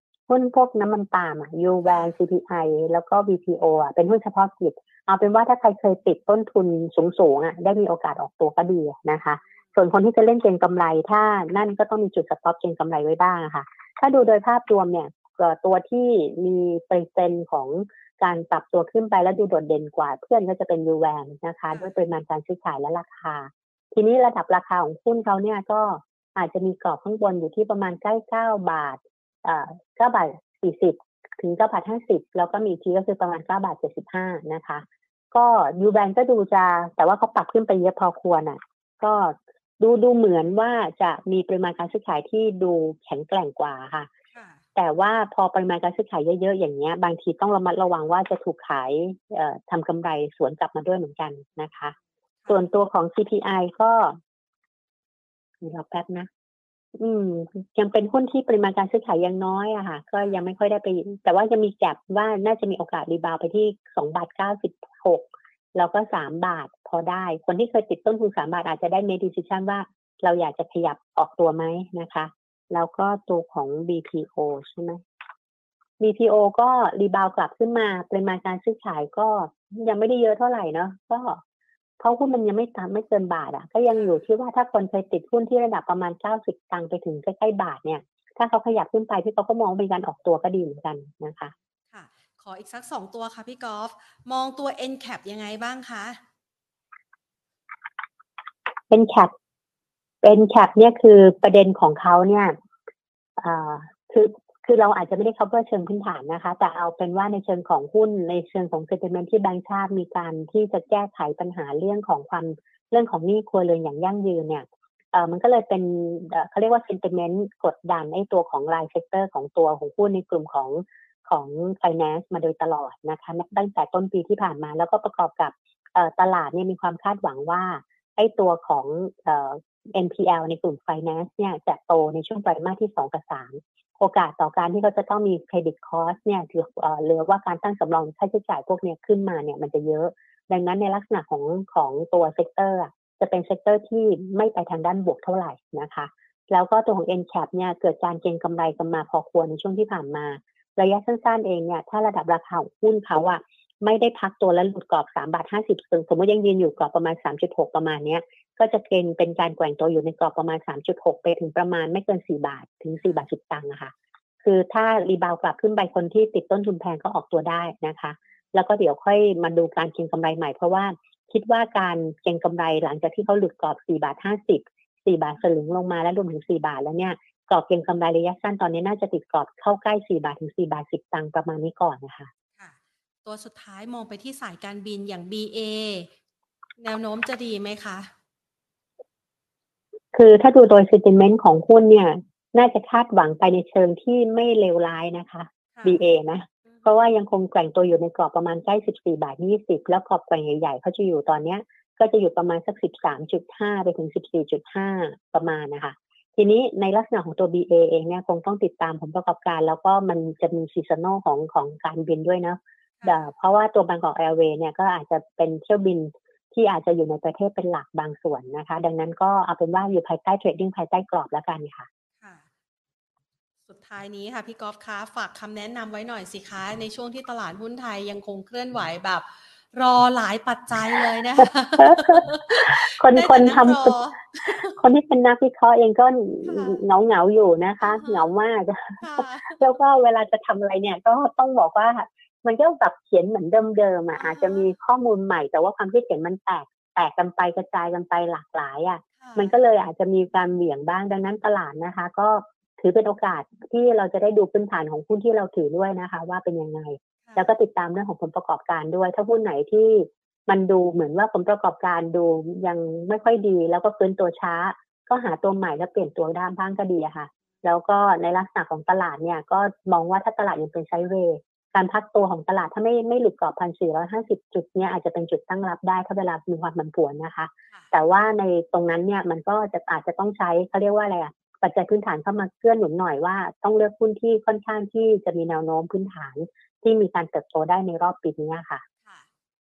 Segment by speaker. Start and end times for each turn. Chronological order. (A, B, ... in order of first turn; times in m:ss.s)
0:00.3-0:44.1 A
0:01.8-0:02.1 B
0:44.3-0:44.6 B
0:44.8-0:51.9 A
0:52.5-0:54.2 A
0:55.6-0:56.3 A
0:56.9-1:15.0 A
1:16.0-1:21.4 A
1:22.0-1:31.5 A
1:23.9-1:24.2 B
1:31.9-1:36.2 B
1:38.9-1:39.3 A
1:40.2-1:42.5 A
1:43.4-2:43.9 A
2:43.0-2:43.2 B
2:44.4-3:02.3 A
3:02.6-3:06.1 B
3:06.8-3:08.1 B
3:10.1-3:41.9 A
3:15.8-3:16.0 B
3:33.0-3:33.3 B
3:42.2-3:42.4 B
3:43.7-3:54.8 B
3:51.8-3:54.0 A
3:54.7-4:48.8 A
3:56.4-3:56.8 B
3:57.8-3:58.3 B
3:59.0-3:59.8 B
4:04.1-4:04.7 B
4:09.2-4:09.6 B